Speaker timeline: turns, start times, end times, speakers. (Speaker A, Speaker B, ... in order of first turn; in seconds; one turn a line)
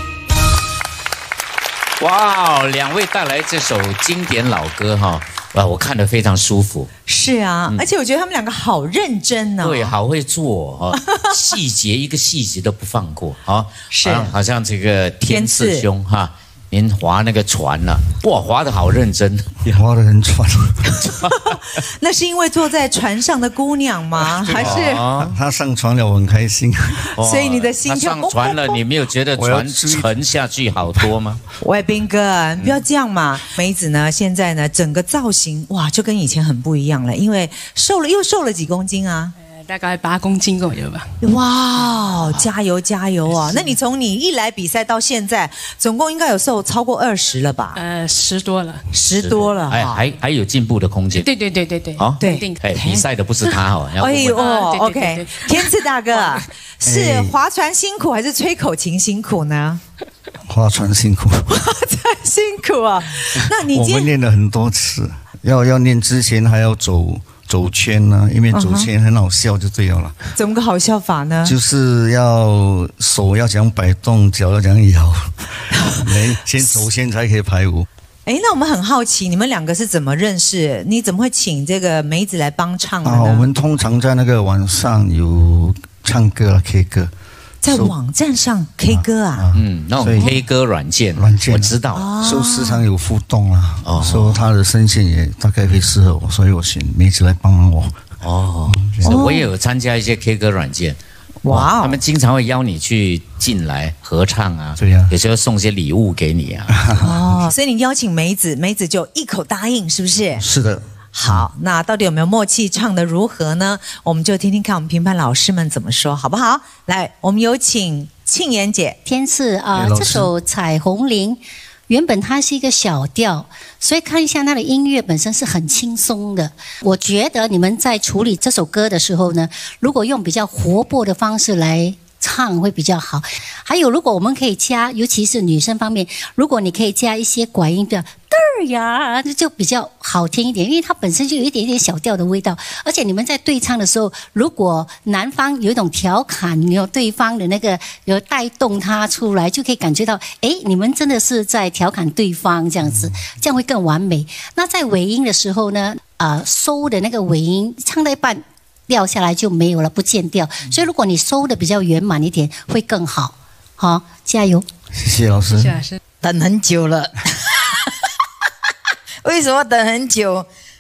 Speaker A: 2.0-6.9
Speaker B: 7.1-9.9
Speaker A: 9.6-19.5
Speaker B: 13.9-14.3
Speaker B: 15.3-15.8
Speaker C: 19.6-20.8
Speaker B: 21.1-25.1
Speaker A: 24.5-25.4
Speaker C: 24.5-27.1
Speaker A: 27.2-31.4
Speaker B: 27.2-28.8
Speaker C: 29.4-30.1
Speaker B: 31.6-39.4
Speaker D: 39.5-41.1
Speaker B: 41.2-47.8
Speaker D: 47.8-48.9
Speaker B: 48.9-50.0
Speaker A: 49.2-51.3
Speaker D: 51.1-52.7
Speaker A: 52.0-54.4
Speaker B: 52.2-53.1
Speaker B: 54.0-59.8
Speaker D: 54.3-56.4
Speaker C: 56.8-57.3
Speaker C: 60.5-61.5
Speaker B: 61.5-64.1
Speaker C: 63.7-70.2
Speaker B: 68.5-68.9
Speaker B: 70.3-71.6
Speaker C: 71.5-75.3
Speaker B: 75.9-76.9
Speaker C: 76.0-77.9
Speaker B: 78.3-83.5
Speaker C: 83.0-87.1
Speaker B: 87.6-89.5
Speaker C: 87.7-87.9
Speaker C: 88.9-90.4
Speaker A: 89.5-92.1
Speaker C: 91.2-98.0
Speaker B: 91.9-92.9
Speaker A: 93.8-94.4
Speaker A: 98.2-106.8
Speaker C: 98.7-99.2
Speaker B: 99.0-99.5
Speaker B: 101.5-102.0
Speaker C: 104.8-105.1
Speaker C: 106.8-107.2
Speaker B: 107.0-110.5
Speaker C: 110.4-111.5
Speaker B: 111.1-119.0
Speaker E: 119.1-164.7
Speaker C: 119.8-120.3
Speaker C: 152.9-153.2
Speaker C: 164.9-165.8
Speaker D: 165.6-166.0
Speaker F: 166.2-167.8
Speaker F: 169.2-170.5